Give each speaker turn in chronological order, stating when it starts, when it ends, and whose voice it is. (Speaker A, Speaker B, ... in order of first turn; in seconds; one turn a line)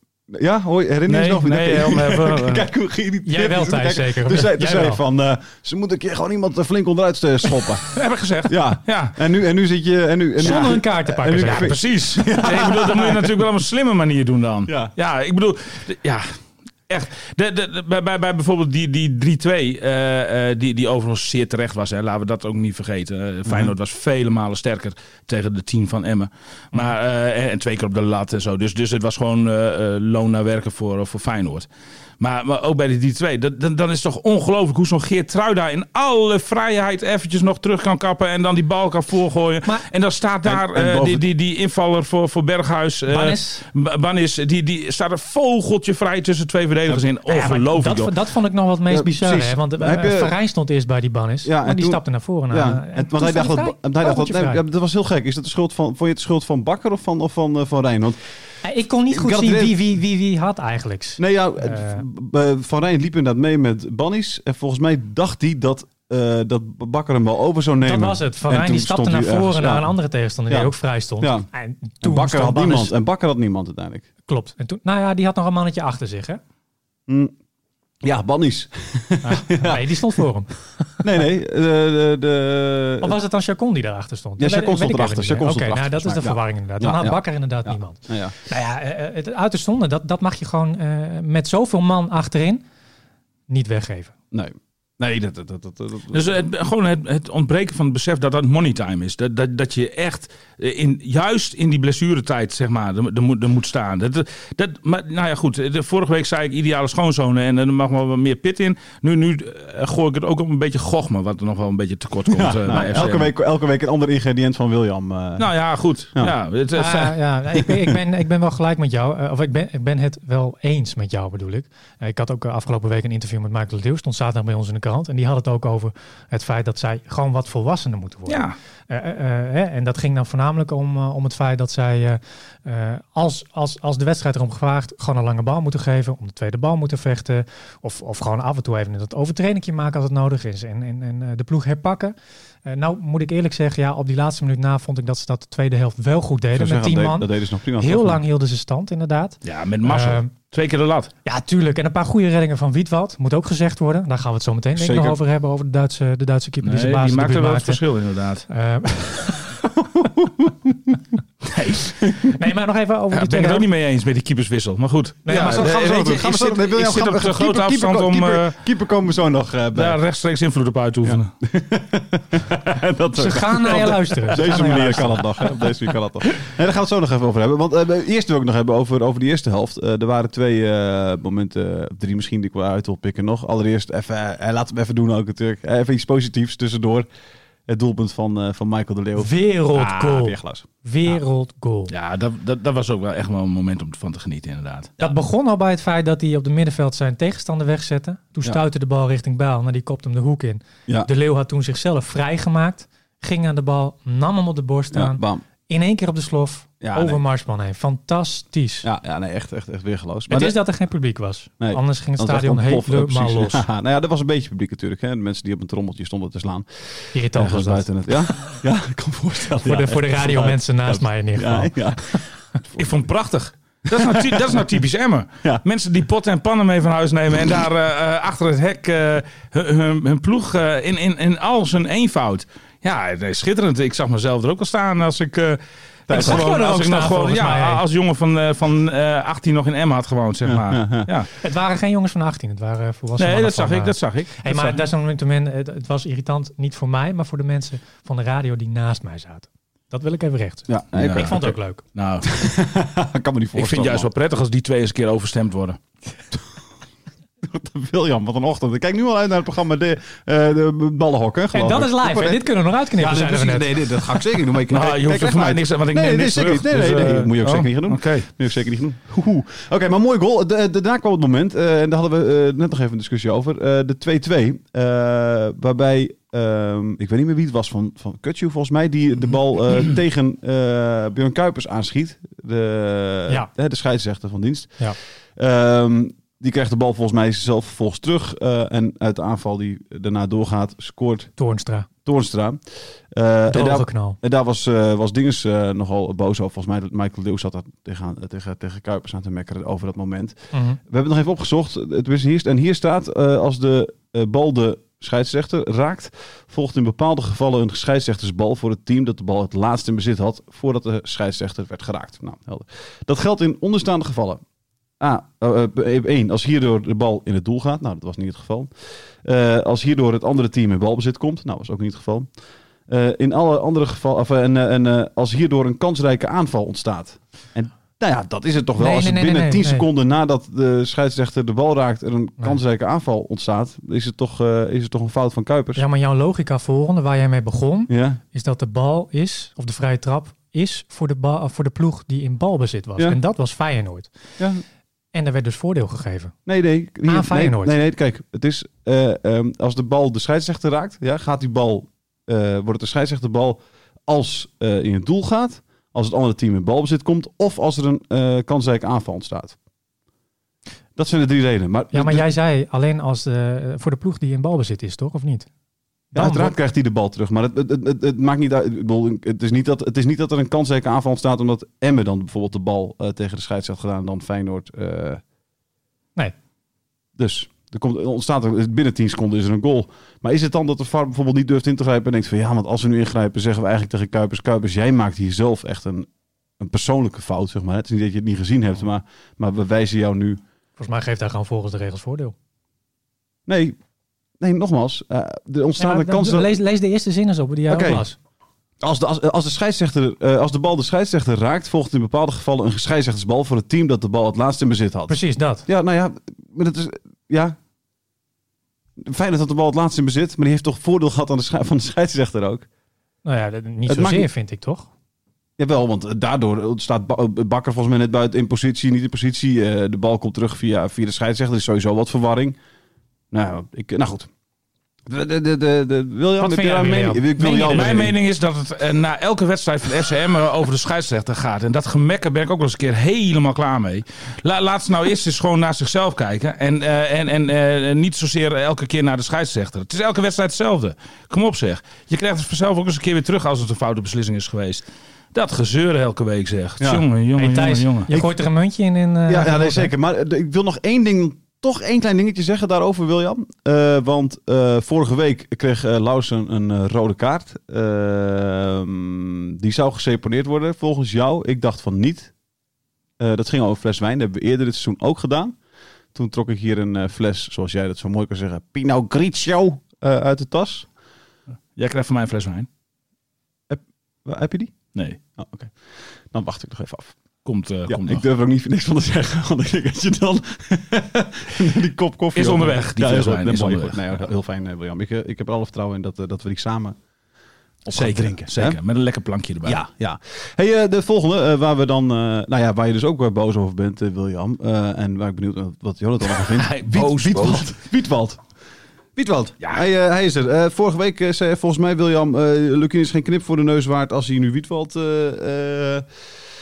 Speaker A: 0.3-7.9
Speaker B: 1.1-2.7
Speaker C: 3.2-5.0
Speaker B: 7.9-9.2
Speaker A: 8.5-13.3
Speaker C: 10.4-11.8
Speaker B: 11.4-16.3
Speaker A: 14.7-14.9
Speaker B: 16.9-31.7
Speaker A: 23.5-23.7
Speaker B: 32.2-48.1
Speaker A: 40.5-41.2
Speaker C: 43.1-43.6
Speaker C: 47.3-54.6
Speaker A: 48.9-50.4
Speaker A: 51.4-58.2
Speaker C: 58.6-62.0
Speaker A: 59.1-59.8
Speaker A: 61.2-69.9
Speaker C: 67.8-72.9
Speaker A: 70.5-71.5
Speaker A: 72.0-74.1
Speaker C: 74.3-76.4
Speaker A: 77.1-77.3
Speaker A: 78.0-80.2
Speaker C: 79.2-81.0
Speaker A: 81.0-83.2
Speaker C: 83.0-92.6
Speaker A: 84.4-88.3
Speaker C: 93.5-94.1
Speaker A: 94.3-96.4
Speaker B: 96.1-113.3
Speaker A: 112.3-115.5
Speaker B: 115.4-117.2
Speaker C: 116.8-150.3
Speaker A: 117.6-118.0
Speaker B: 128.3-128.6
Speaker A: 146.5-148.2
Speaker B: 149.4-151.1
Speaker C: 151.2-157.8
Speaker A: 154.8-155.2
Speaker B: 156.6-158.5
Speaker C: 158.5-159.7
Speaker A: 159.8-160.7
Speaker B: 161.5-162.3
Speaker C: 162.2-163.7
Speaker B: 163.1-168.6
Speaker C: 165.3-165.8
Speaker A: 165.3-170.0
Speaker B: 169.7-171.3
Speaker A: 171.0-187.1
Speaker C: 173.2-175.6
Speaker A: 187.7-190.7
Speaker C: 189.2-191.9
Speaker B: 191.9-195.1
Speaker C: 195.0-208.9
Speaker A: 204.9-205.4
Speaker A: 206.8-207.2
Speaker A: 208.8-210.6
Speaker C: 210.3-213.7
Speaker A: 211.6-222.2
Speaker C: 217.1-218.5
Speaker C: 219.6-222.3
Speaker B: 222.8-241.3
Speaker A: 223.9-224.7
Speaker A: 236.1-236.5
Speaker C: 236.1-237.8
Speaker A: 240.4-241.1
Speaker C: 241.4-251.8
Speaker B: 243.2-244.8
Speaker A: 250.7-251.6
Speaker B: 251.0-251.4
Speaker B: 251.9-252.3
Speaker A: 252.2-254.1
Speaker B: 253.6-255.8
Speaker A: 257.4-284.9
Speaker C: 261.5-264.1
Speaker B: 264.7-268.3
Speaker A: 285.4-291.3
Speaker C: 291.4-291.9
Speaker A: 292.1-292.6
Speaker A: 293.1-314.4
Speaker C: 293.5-294.2
Speaker C: 300.5-300.8
Speaker A: 315.0-318.7
Speaker A: 319.2-322.3
Speaker A: 322.9-335.8
Speaker C: 328.8-329.9
Speaker C: 335.8-344.1
Speaker A: 337.9-338.2
Speaker C: 345.1-346.4
Speaker A: 346.5-359.6
Speaker C: 347.1-347.8
Speaker A: 361.0-362.3
Speaker C: 361.9-365.5
Speaker C: 366.1-366.5
Speaker A: 366.1-375.2
Speaker A: 377.2-390.4
Speaker C: 390.8-392.4
Speaker A: 393.5-393.8
Speaker A: 394.4-396.5
Speaker C: 395.8-398.2
Speaker A: 397.7-398.1
Speaker A: 398.8-405.1
Speaker C: 405.1-405.6
Speaker A: 405.7-407.6
Speaker A: 409.0-412.7
Speaker C: 413.2-414.9
Speaker A: 413.9-414.3
Speaker A: 415.6-422.6
Speaker A: 423.3-424.3
Speaker A: 425.1-428.1
Speaker C: 426.4-428.1
Speaker B: 427.6-448.1
Speaker C: 447.4-449.9
Speaker A: 449.3-462.3
Speaker A: 463.2-465.6
Speaker A: 466.1-470.9
Speaker B: 471.8-472.7
Speaker A: 473.7-474.8
Speaker A: 475.4-475.8
Speaker A: 476.3-477.1
Speaker B: 477.4-478.2
Speaker A: 477.9-487.0
Speaker B: 482.3-484.2
Speaker A: 487.9-488.8
Speaker B: 487.9-489.8
Speaker A: 489.6-498.4
Speaker B: 496.4-497.7
Speaker A: 499.2-506.1